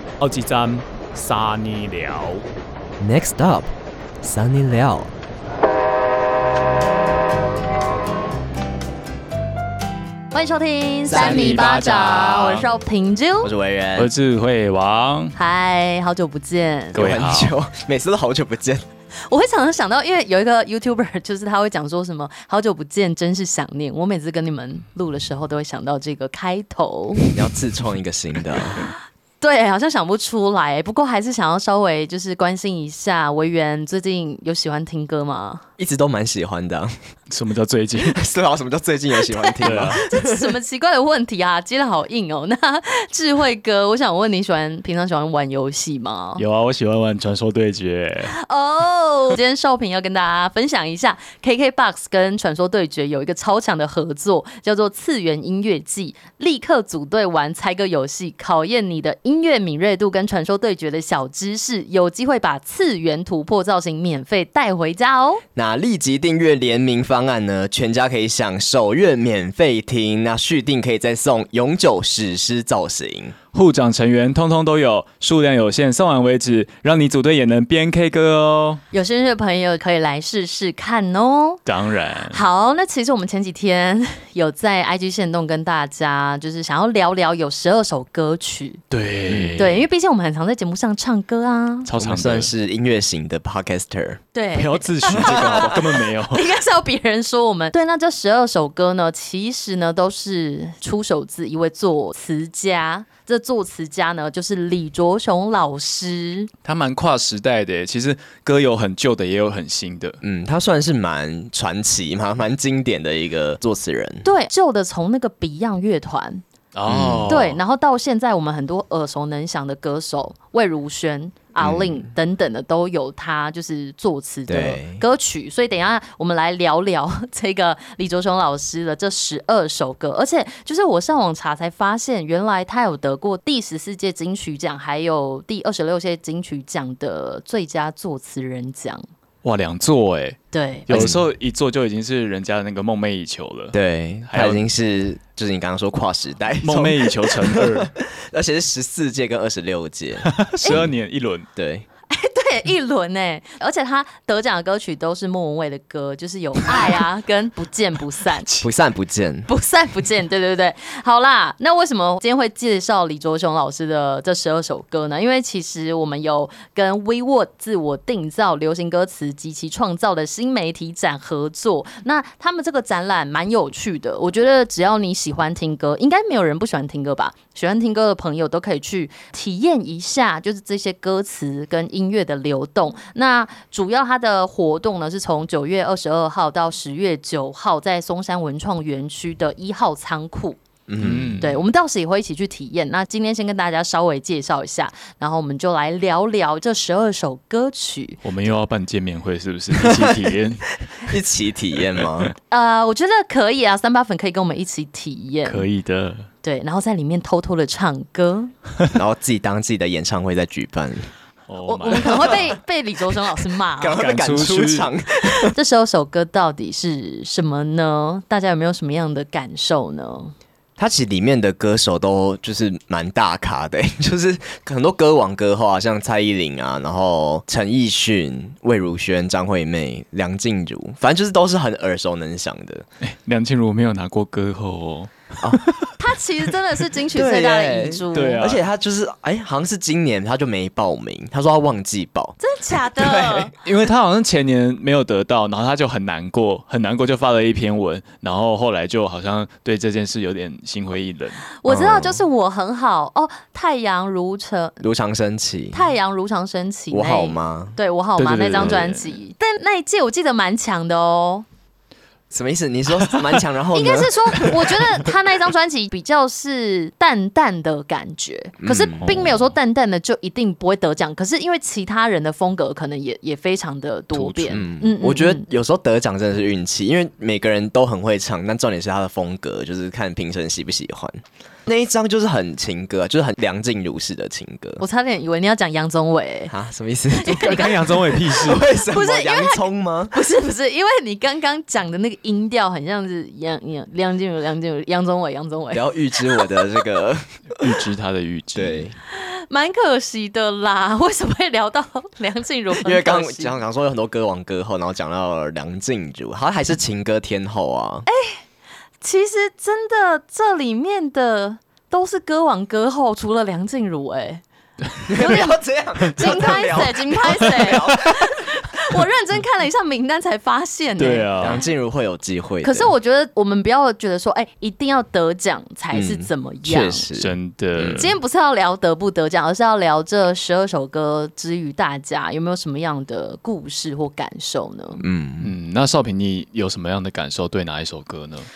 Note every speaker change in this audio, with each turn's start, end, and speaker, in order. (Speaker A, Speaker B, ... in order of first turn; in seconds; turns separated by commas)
Speaker A: 0.2-2.4, Speaker B: 3.0-5.1, Speaker C: 10.3-13.5, Speaker B: 11.1-11.9, Speaker A: 11.1-12.7, Speaker B: 13.4-14.1, Speaker A: 13.9-15.3, Speaker C: 15.3-17.0, Speaker B: 16.9-18.8, Speaker A: 16.9-17.5, Speaker C: 19.2-27.3, Speaker B: 27.3-28.9, Speaker C: 29.4-35.6, Speaker B: 35.8-36.9, Speaker A: 37.3-38.2, Speaker B: 38.0-40.6, Speaker C: 39.2-46.4, Speaker A: 39.6-40.0, Speaker A: 46.4-48.3, Speaker C: 48.3-65.4, Speaker B: 65.5-73.3, Speaker A: 73.5-78.8, Speaker C: 78.9-81.6, Speaker A: 81.7-82.4, Speaker C: 82.3-88.8, Speaker A: 88.9-89.8, Speaker B: 89.3-89.7, Speaker C: 89.6-91.9, Speaker A: 91.8-92.5, Speaker B: 92.0-94.2, Speaker C: 94.3-106.5, Speaker A: 94.5-96.5, Speaker B: 95.1-95.8, Speaker A: 106.6-110.2, Speaker B: 110.2-114.2, Speaker C: 114.2-116.4, Speaker A: 116.7-117.6, Speaker B: 116.9-117.4, Speaker C: 117.3-139.0, Speaker B: 121.6-122.1, Speaker B: 124.5-125.0, Speaker A: 139.4-143.8, Speaker C: 140.5-141.1, Speaker B: 140.9-141.2, Speaker B: 143.7-150.9, Speaker A: 144.3-144.6, Speaker A: 146.6-147.9, Speaker A: 150.2-151.5, Speaker B: 151.5-151.8, Speaker C: 152.1-158.5, Speaker B: 158.6-159.5, Speaker C: 159.5-190.6, Speaker B: 190.9-191.4, Speaker A: 191.0-191.6, Speaker C: 191.4-198.2, Speaker A: 198.2-200.8, Speaker B: 199.7-200.4, Speaker B: 200.9-202.3, Speaker A: 202.0-202.3, Speaker C: 202.5-205.7, Speaker A: 205.4-206.3, Speaker C: 206.4-208.5, Speaker B: 208.9-211.1, Speaker A: 211.5-212.4, Speaker C: 211.6-214.0, Speaker B: 211.9-212.3, Speaker B: 213.8-215.5, Speaker A: 213.9-214.9, Speaker C: 215.5-220.3, Speaker B: 220.8-232.8, Speaker A: 233.0-235.1, Speaker B: 235.4-235.6, Speaker C: 236.0-238.4, Speaker B: 237.1-243.5, Speaker A: 238.1-238.6, Speaker C: 242.4-243.5, Speaker A: 243.6-251.4, Speaker C: 251.6-254.8, Speaker B: 251.7-252.2, Speaker B: 254.8-255.9, Speaker C: 255.7-261.4, Speaker B: 256.9-257.8, Speaker A: 258.2-259.1, Speaker B: 258.6-258.8, Speaker B: 262.3-265.1, Speaker C: 263.7-275.4, Speaker B: 268.6-269.3, Speaker A: 269.0-269.3, Speaker A: 274.1-274.6, Speaker B: 274.5-284.8, Speaker C: 284.8-286.5, Speaker B: 286.5-290.1, Speaker C: 287.1-296.7, Speaker A: 287.3-288.6, Speaker B: 295.7-297.8, Speaker A: 297.6-298.9, Speaker B: 298.5-298.9, Speaker C: 299.1-303.6, Speaker B: 302.8-308.1, Speaker C: 308.1-308.4, Speaker C: 309.0-314.4, Speaker B: 315.1-318.6, Speaker C: 315.1-315.6, Speaker C: 316.1-321.6, Speaker A: 321.0-321.6, Speaker B: 321.4-322.9, Speaker C: 322.6-327.1, Speaker B: 325.9-328.1, Speaker A: 327.1-328.1, Speaker C: 327.9-335.0, Speaker B: 335.0-335.5, Speaker A: 335.4-338.5